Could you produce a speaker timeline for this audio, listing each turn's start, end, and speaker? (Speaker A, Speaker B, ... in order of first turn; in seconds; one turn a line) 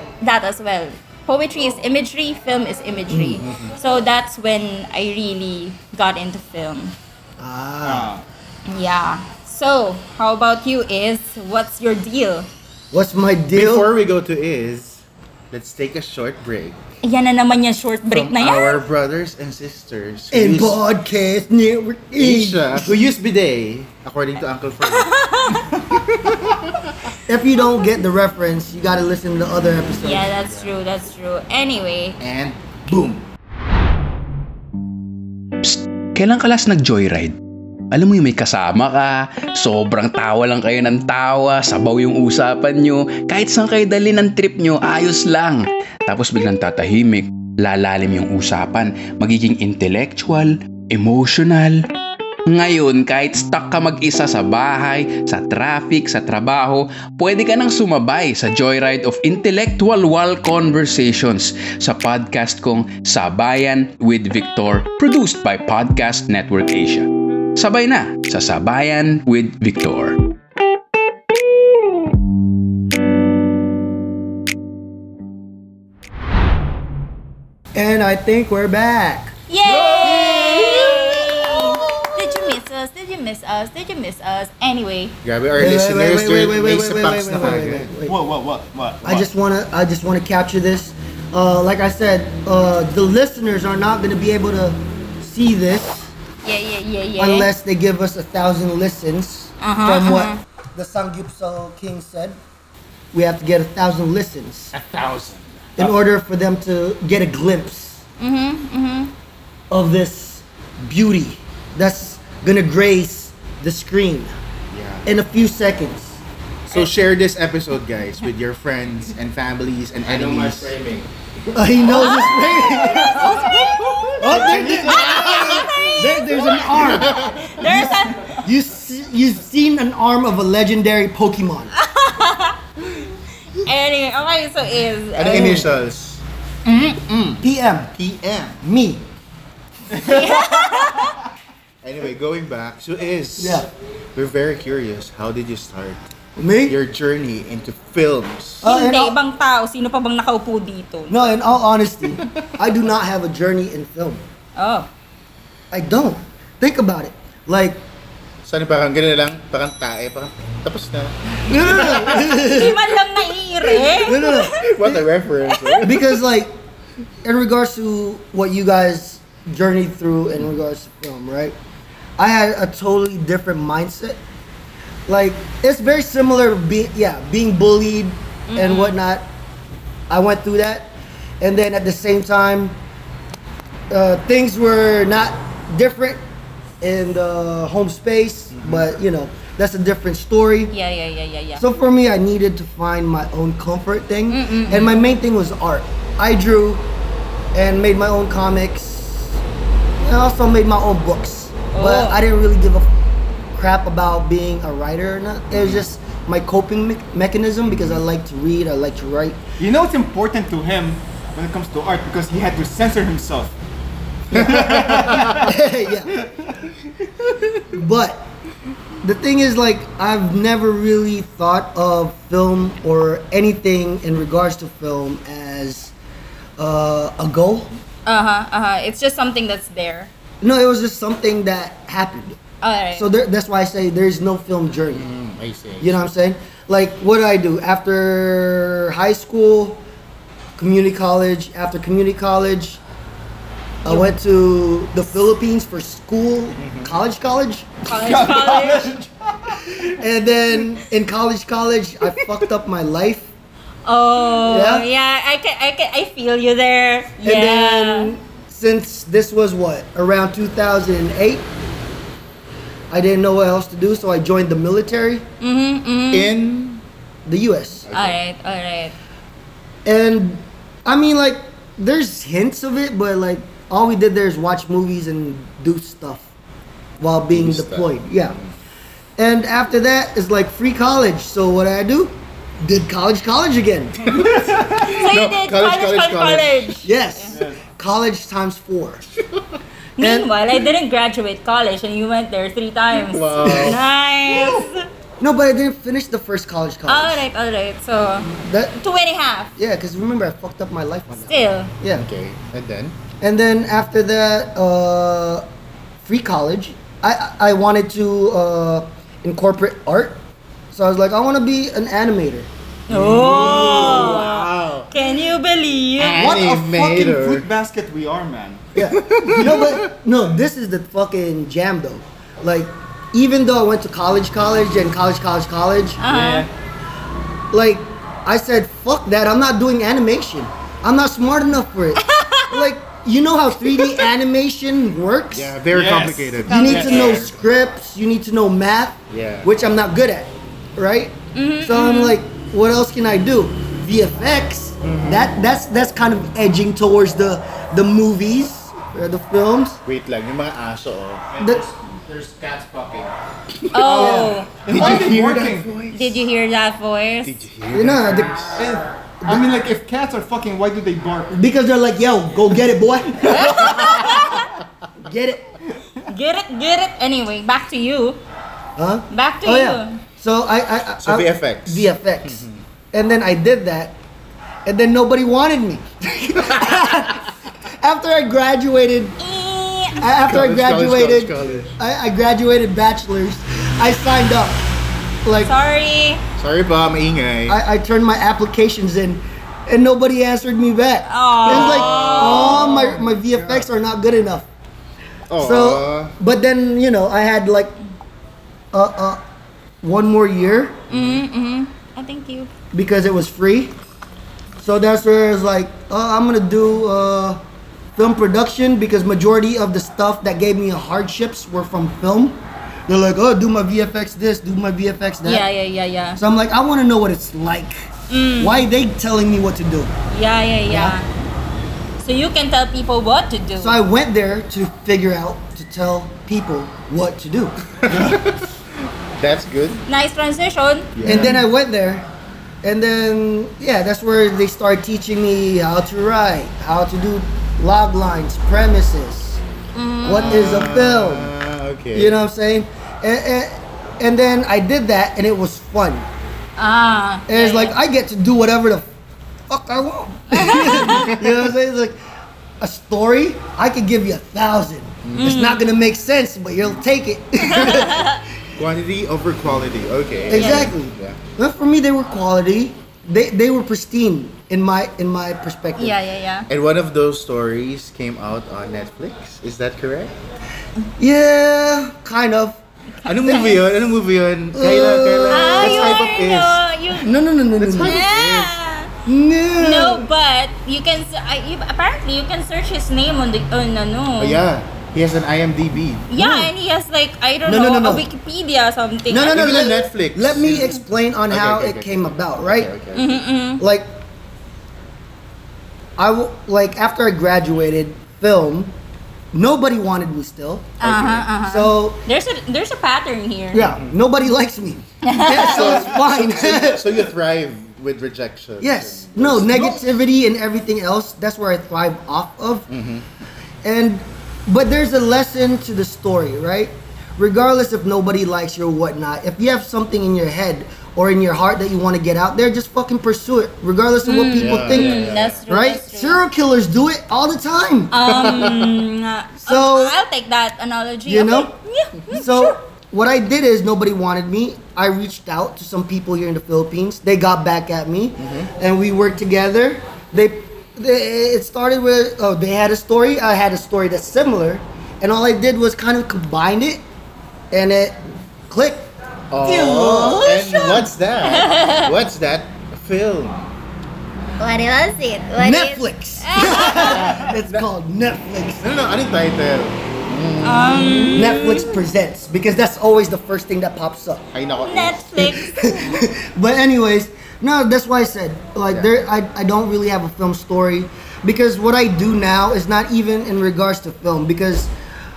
Speaker A: 0.2-7.0
Speaker B: 3.1-3.8
Speaker C: 7.4-8.1
Speaker D: 7.8-8.2
Speaker A: 8.7-12.5
Speaker C: 12.9-13.9
Speaker B: 13.5-16.8
Speaker A: 17.0-18.9
Speaker B: 18.1-20.8
Speaker C: 20.3-23.1
Speaker B: 22.1-25.2
Speaker A: 24.8-25.7
Speaker B: 25.9-26.8
Speaker C: 27.3-30.3
Speaker A: 30.0-32.2
Speaker B: 32.2-33.2
Speaker E: 35.6-37.4
Speaker E: 37.9-51.8
Speaker E: 52.5-70.2
Speaker C: 77.8-79.3
Speaker A: 79.5-85.2
Speaker D: 79.7-80.9
Speaker B: 80.0-80.7
Speaker C: 80.1-80.3
Speaker B: 85.2-87.9
Speaker C: 85.5-88.2
Speaker D: 88.0-89.3
Speaker C: 89.0-96.1
Speaker A: 96.4-97.5
Speaker C: 97.2-102.4
Speaker A: 99.6-100.4
Speaker C: 103.1-104.7
Speaker B: 104.7-106.0
Speaker C: 105.8-108.0
Speaker A: 108.2-109.1
Speaker C: 109.7-114.4
Speaker B: 114.7-115.0
Speaker C: 115.0-116.2
Speaker B: 116.7-121.1
Speaker C: 121.5-123.4
Speaker B: 121.8-127.7
Speaker A: 121.9-128.3
Speaker D: 123.0-123.5
Speaker D: 124.1-124.9
Speaker C: 124.2-127.9
Speaker C: 128.4-131.7
Speaker A: 131.8-132.6
Speaker A: 133.6-135.7
Speaker B: 135.1-137.4
Speaker C: 135.3-135.7
Speaker C: 137.4-138.0
Speaker B: 137.9-138.6
Speaker C: 138.6-139.1
Speaker D: 139.9-140.9
Speaker A: 139.9-141.2
Speaker B: 141.8-146.0
Speaker C: 143.4-143.7
Speaker C: 146.4-146.8
Speaker B: 146.7-148.7
Speaker C: 148.6-149.2
Speaker A: 148.6-151.3
Speaker C: 151.1-154.2
Speaker A: 154.6-154.9
Speaker C: 155.7-157.8
Speaker B: 158.4-162.6
Speaker C: 161.5-162.8
Speaker A: 162.2-164.6
Speaker C: 163.6-165.1
Speaker B: 164.1-166.2
Speaker A: 165.5-165.8
Speaker C: 165.8-166.5
Speaker C: 167.2-171.6
Speaker C: 172.2-174.2
Speaker C: 175.1-179.3
Speaker A: 178.5-179.0
Speaker C: 180.1-182.8
Speaker C: 183.9-186.2
Speaker C: 186.8-190.8
Speaker B: 188.5-188.9
Speaker A: 190.7-191.6
Speaker C: 191.6-196.9
Speaker A: 194.3-195.1
Speaker C: 197.5-199.4
Speaker C: 200.0-202.9
Speaker A: 201.7-202.2
Speaker C: 203.5-209.4
Speaker B: 205.5-205.8
Speaker B: 207.7-208.0
Speaker D: 209.6-213.6
Speaker B: 214.3-215.5
Speaker D: 214.3-215.6
Speaker C: 215.3-216.2
Speaker D: 216.1-216.7
Speaker C: 217.7-218.3
Speaker C: 219.0-225.9
Speaker C: 226.6-227.7
Speaker A: 228.1-230.1
Speaker C: 230.4-232.4
Speaker A: 232.6-233.1
Speaker C: 232.9-235.1
Speaker B: 234.9-236.1
Speaker C: 235.8-239.8
Speaker C: 240.6-242.8
Speaker C: 243.8-247.7
Speaker B: 246.6-247.0
Speaker A: 247.8-248.9
Speaker D: 248.0-249.9
Speaker C: 249.8-253.3
Speaker A: 253.9-258.1
Speaker C: 254.4-254.9
Speaker C: 257.2-261.5
Speaker C: 262.9-265.2
Speaker A: 265.4-266.4
Speaker B: 266.1-266.8
Speaker C: 267.3-267.9
Speaker B: 267.9-268.2
Speaker A: 267.9-268.9
Speaker C: 269.9-276.3
Speaker C: 277.0-278.4
Speaker B: 277.3-278.5
Speaker C: 279.2-284.2
Speaker B: 284.1-286.8
Speaker D: 284.1-284.9
Speaker A: 284.8-287.4
Speaker C: 286.8-289.0
Speaker D: 287.3-287.6
Speaker B: 289.2-289.6
Speaker A: 290.0-294.9
Speaker C: 290.0-290.3
Speaker B: 292.9-293.8
Speaker C: 293.4-293.8
Speaker C: 295.2-297.3
Speaker A: 296.9-299.5
Speaker C: 298.3-298.8
Speaker C: 299.6-302.1
Speaker A: 301.2-301.7
Speaker B: 301.9-303.0
Speaker C: 303.2-305.5
Speaker C: 306.0-312.5
Speaker A: 312.9-316.3
Speaker B: 312.9-314.9
Speaker B: 316.0-317.5
Speaker D: 316.2-318.7
Speaker C: 318.8-326.0
Speaker B: 318.8-319.9
Speaker A: 326.0-326.5
Speaker D: 326.1-326.5
Speaker C: 327.5-335.6
Speaker A: 332.0-332.7
Speaker B: 335.3-337.4
Speaker D: 335.7-337.2
Speaker C: 336.5-349.8
Speaker B: 339.1-339.5
Speaker A: 341.4-342.2
Speaker B: 344.8-345.4
Speaker B: 349.9-356.3
Speaker C: 351.4-351.7
Speaker A: 353.7-354.5
Speaker D: 353.8-355.7
Speaker A: 355.9-357.4
Speaker B: 357.2-358.8
Speaker C: 357.7-358.6
Speaker D: 358.6-361.4
Speaker C: 361.3-364.0
Speaker D: 363.3-363.9
Speaker A: 363.3-364.5
Speaker C: 365.0-365.5
Speaker A: 366.1-368.2
Speaker C: 368.8-374.0
Speaker A: 369.1-370.0
Speaker B: 371.0-372.6
Speaker C: 374.7-379.2
Speaker B: 376.4-377.0
Speaker A: 379.2-380.0
Speaker C: 380.0-384.7
Speaker B: 380.2-381.7
Speaker C: 385.2-385.5
Speaker A: 385.4-386.2
Speaker B: 386.4-387.6
Speaker C: 387.5-394.5
Speaker A: 391.1-392.9
Speaker B: 391.5-393.7
Speaker B: 395.3-396.1
Speaker C: 395.4-397.8
Speaker C: 398.7-399.2
Speaker C: 399.8-400.9
Speaker B: 400.9-401.2
Speaker A: 400.9-402.5
Speaker C: 402.7-403.8
Speaker C: 404.6-407.4
Speaker C: 408.0-415.5
Speaker A: 415.2-416.2
Speaker C: 416.2-417.9
Speaker A: 418.1-418.7
Speaker C: 418.4-419.9
Speaker A: 420.1-421.1
Speaker C: 420.7-421.0
Speaker A: 422.0-423.8
Speaker C: 423.6-427.6
Speaker B: 427.8-428.5
Speaker D: 427.9-428.2
Speaker B: 429.2-429.8
Speaker A: 429.9-430.9
Speaker B: 431.0-431.4
Speaker C: 431.1-432.1
Speaker C: 432.6-439.4
Speaker A: 439.8-440.7
Speaker C: 440.0-441.3
Speaker B: 440.1-442.2
Speaker C: 441.9-446.1
Speaker A: 446.6-447.8
Speaker C: 447.3-448.9
Speaker C: 449.5-452.0
Speaker A: 450.3-451.1
Speaker B: 450.7-451.4
Speaker C: 452.6-458.2
Speaker B: 455.1-455.4
Speaker A: 455.2-455.6
Speaker A: 457.5-458.2
Speaker B: 458.6-461.2
Speaker C: 460.3-466.0
Speaker A: 460.3-460.7
Speaker A: 465.8-466.5
Speaker B: 466.5-470.1
Speaker C: 471.0-472.6
Speaker A: 473.1-473.7
Speaker B: 473.1-476.7
Speaker C: 473.3-473.6
Speaker C: 474.6-476.1
Speaker A: 475.3-477.1
Speaker C: 477.0-478.0
Speaker B: 477.6-478.6
Speaker A: 477.8-478.9
Speaker C: 479.1-480.1
Speaker A: 479.6-484.4
Speaker B: 484.2-486.1
Speaker A: 486.1-489.7
Speaker C: 486.1-486.5
Speaker C: 487.4-488.1
Speaker C: 489.1-492.7
Speaker B: 489.2-493.2
Speaker A: 492.9-493.6
Speaker C: 493.6-493.9
Speaker C: 496.0-498.7
Speaker C: 499.3-502.0
Speaker A: 500.8-503.6
Speaker C: 503.5-507.0
Speaker B: 503.6-504.0
Speaker A: 505.0-505.7
Speaker B: 505.3-509.9
Speaker C: 508.6-512.7
Speaker B: 512.7-513.1
Speaker C: 513.6-528.4
Speaker A: 524.0-526.2
Speaker B: 524.4-525.4
Speaker A: 527.9-532.6
Speaker B: 528.0-528.8
Speaker C: 529.4-530.0
Speaker C: 531.1-531.5
Speaker C: 532.1-546.8
Speaker B: 538.2-538.5
Speaker C: 547.5-548.9
Speaker B: 549.3-553.6
Speaker C: 549.5-550.3
Speaker A: 549.5-551.9
Speaker A: 554.4-557.1
Speaker C: 555.4-558.6
Speaker B: 556.6-557.7
Speaker B: 558.6-561.6
Speaker A: 560.4-561.8
Speaker C: 561.1-564.2
Speaker B: 564.3-565.3
Speaker A: 564.6-566.0
Speaker C: 565.2-574.7
Speaker B: 568.7-569.0